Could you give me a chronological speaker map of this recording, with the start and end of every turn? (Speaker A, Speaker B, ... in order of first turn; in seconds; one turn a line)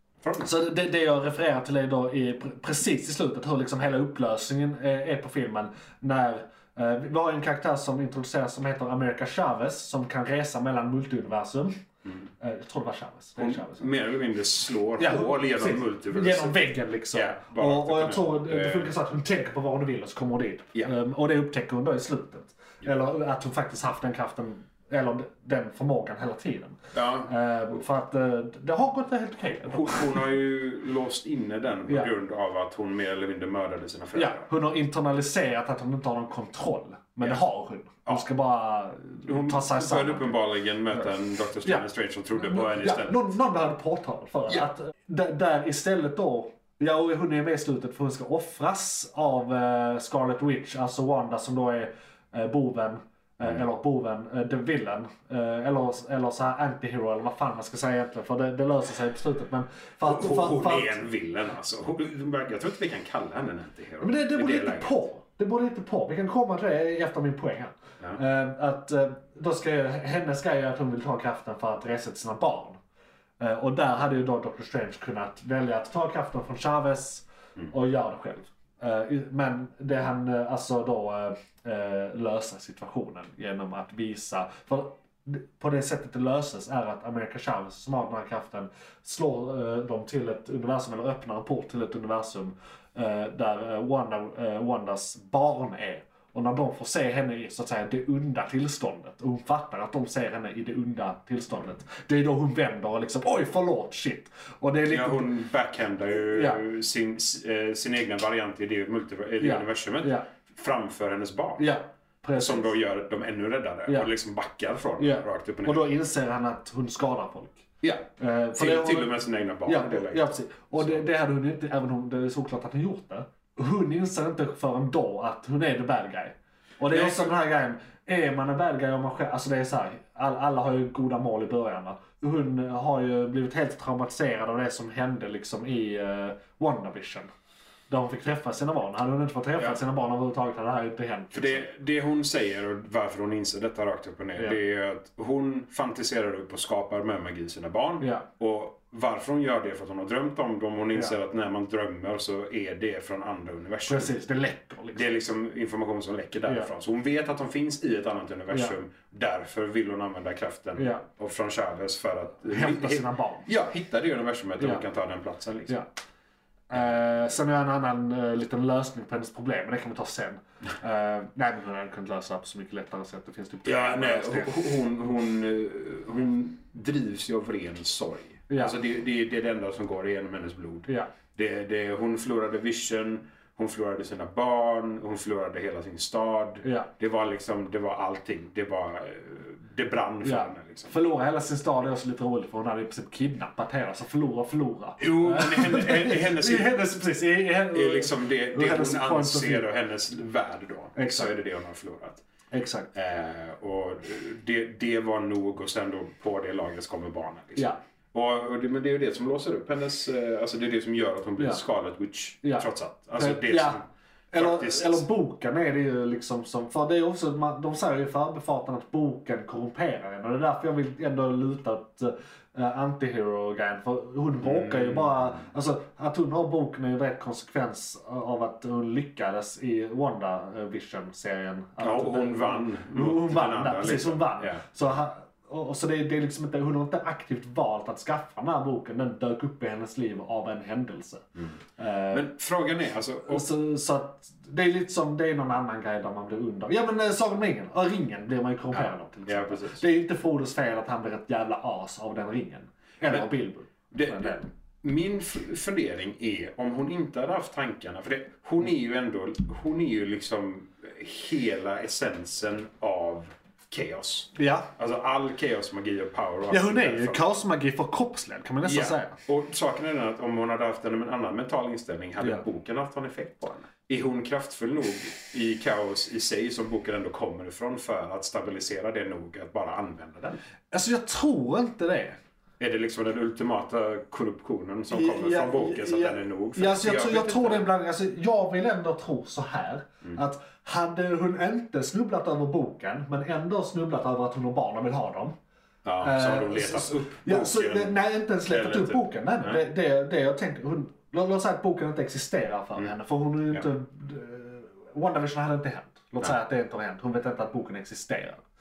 Speaker A: 0.2-0.5
Speaker B: 0.4-11.8
Speaker B: 12.4-13.9
Speaker A: 13.4-18.9
Speaker B: 15.0-30.2
Speaker A: 26.9-27.3
Speaker A: 29.7-34.5
Speaker B: 34.1-40.4
Speaker A: 39.3-43.3
Speaker B: 41.6-61.0
Speaker A: 60.0-65.0
Speaker B: 64.0-72.8
Speaker B: 73.4-105.3
Speaker A: 104.9-111.7
Speaker B: 106.2-106.6
Speaker B: 109.4-110.3
Speaker B: 111.6-112.7
Speaker A: 112.3-115.8
Speaker B: 115.0-117.7
Speaker A: 117.8-121.0
Speaker B: 118.2-119.1
Speaker B: 119.7-137.3
Speaker A: 126.9-127.3
Speaker B: 137.9-141.7
Speaker A: 141.3-154.1
Speaker B: 148.0-148.3
Speaker B: 153.9-155.1
Speaker A: 154.9-165.8
Speaker B: 160.8-161.0
Speaker B: 162.5-163.5
Speaker B: 166.7-174.5
Speaker A: 173.7-190.9
Speaker B: 178.5-178.8
Speaker B: 186.6-186.9
Speaker B: 190.2-199.7
Speaker A: 195.0-196.8
Speaker A: 197.7-202.2
Speaker B: 201.0-201.3
Speaker B: 202.5-202.9
Speaker A: 202.9-215.0
Speaker B: 212.4-242.3
Speaker A: 224.4-225.4
Speaker A: 231.8-234.6
Speaker A: 242.1-243.4
Speaker B: 243.3-254.5
Speaker A: 248.7-249.8
Speaker A: 253.9-267.2
Speaker B: 264.4-264.7
Speaker B: 266.5-269.2
Speaker A: 268.6-280.4
Speaker B: 280.7-282.2
Speaker A: 282.6-287.7
Speaker B: 284.9-295.4
Speaker A: 295.9-299.6
Speaker B: 296.0-308.4